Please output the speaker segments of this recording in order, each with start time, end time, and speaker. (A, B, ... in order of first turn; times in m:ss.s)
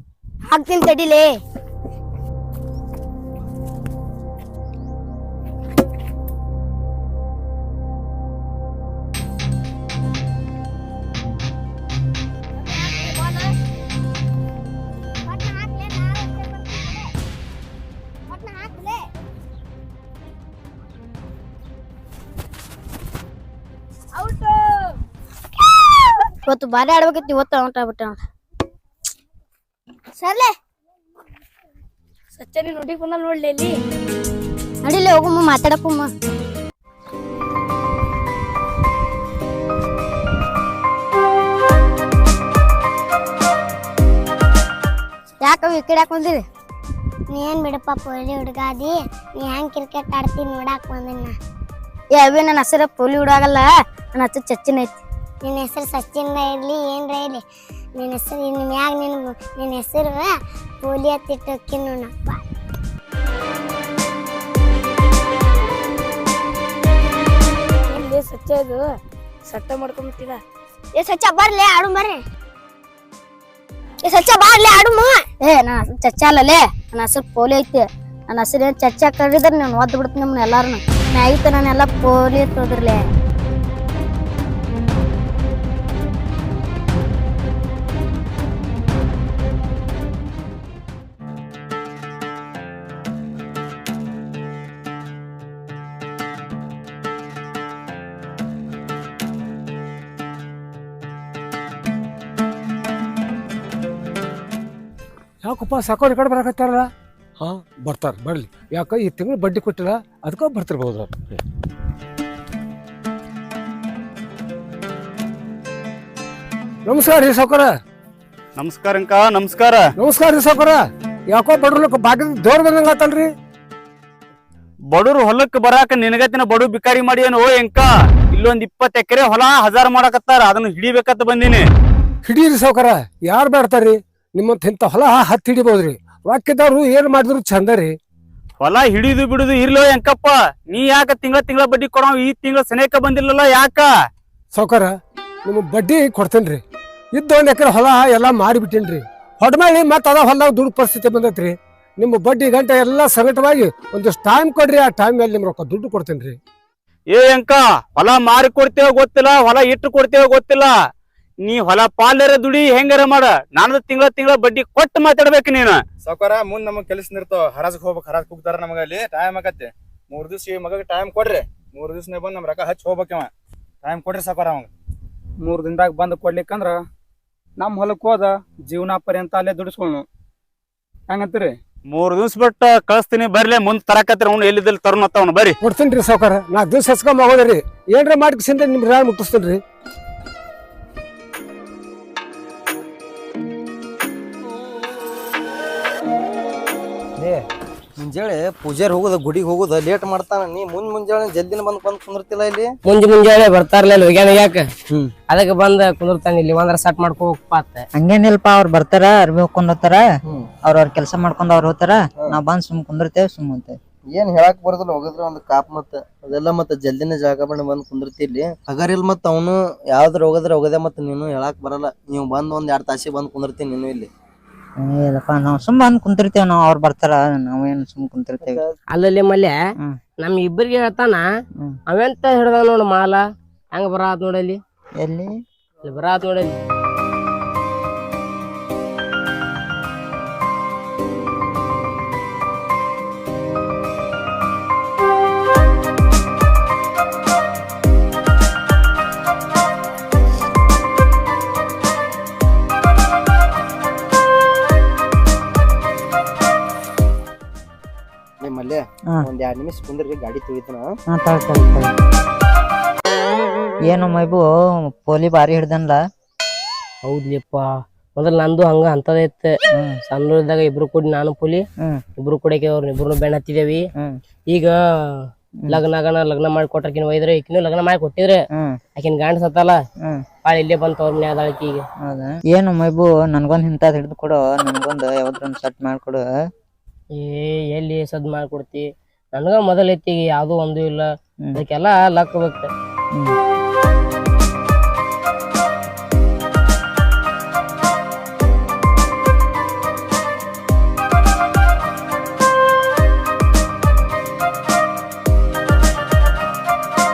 0:00.5-0:01.4 A
0:15.6-0:16.2 B
0:18.4-0:18.8 B
0:26.5-0:28.2 A
0:30.2-0:30.5 A
0:32.4-0:33.7 C
0:34.9-0:36.1 A
0:45.4-0:46.4 A
0:47.3-0:51.4 B
0:52.2-0:55.0 A
0:55.4-0:57.4 B
0:58.0-1:00.3 B
1:00.8-1:02.4 B
1:07.9-1:08.9 C
1:09.5-1:10.4 C
1:11.0-1:12.2 A
1:14.1-1:23.0 A
1:45.4-1:46.9 D
1:47.4-1:51.4 D
1:56.9-1:57.7 D
1:58.6-1:59.9 E
2:00.0-2:00.8 D
2:01.3-2:03.3 D
2:04.9-2:11.6 E
2:12.2-2:18.0 D
2:18.6-2:23.9 E
2:24.6-2:24.9 D
2:25.5-2:26.6 D
2:27.2-2:36.4 D
2:37.1-2:40.7 E
2:41.4-2:45.8 E
2:46.0-2:53.3 F
2:53.8-2:54.7 F
2:55.4-2:56.8 G
2:57.6-3:00.1 G
3:01.1-3:01.6 G
3:01.9-3:05.6 E
3:05.6-3:09.6 D
3:17.2-3:17.4 H
3:18.0-3:22.7 H
3:22.9-3:24.7 I
3:25.3-3:27.9 I
3:28.0-3:30.1 J
3:30.6-3:33.8 J
3:34.1-3:44.1 H
3:44.8-3:48.6 J
3:48.4-3:48.8 H
3:48.9-3:49.6 I
3:50.2-3:51.2 I
3:51.9-3:53.2 I
3:53.7-3:54.6 I
3:55.0-3:55.3 J
3:55.8-3:56.5 I
4:18.4-4:20.9 H
4:21.1-4:22.0 J
4:23.9-4:26.0 J
4:27.0-4:27.6 I
4:28.2-4:29.5 I
4:30.1-4:31.6 I
4:32.2-4:33.9 I
4:35.7-4:38.4 I
4:39.0-4:39.8 I
4:40.4-4:41.9 I
4:42.0-4:46.3 J
4:47.2-4:52.7 I